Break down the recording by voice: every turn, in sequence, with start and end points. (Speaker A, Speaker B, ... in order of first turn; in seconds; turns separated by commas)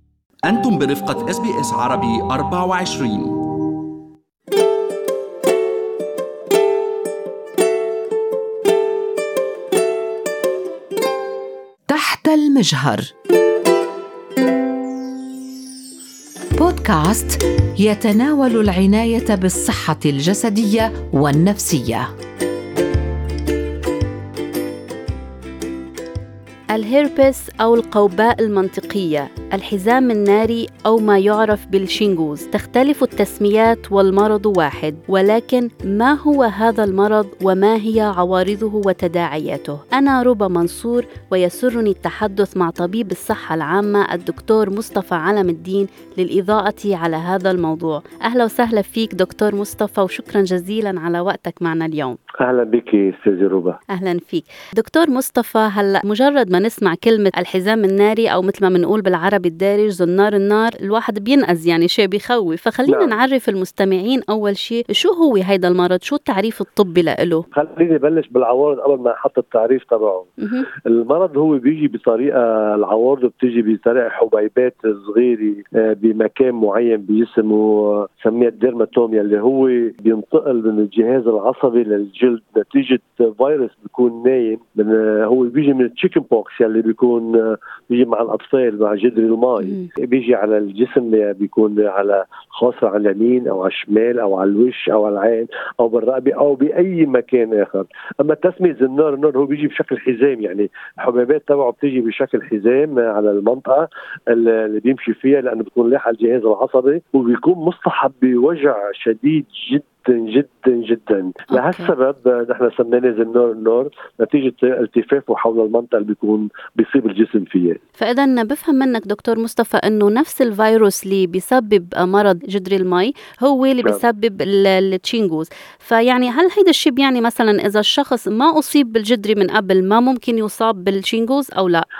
Speaker A: 0.4-3.5, Speaker B: 11.9-13.1, Speaker B: 16.6-22.1, Speaker C: 26.7-52.2, Speaker D: 52.4-53.8, Speaker C: 53.9-67.5, Speaker D: 62.9-63.2, Speaker D: 67.5-70.3, Speaker C: 70.4-70.7, Speaker D: 70.9-117.8, Speaker C: 89.6-89.9, Speaker C: 111.5-111.9, Speaker C: 118.0-131.8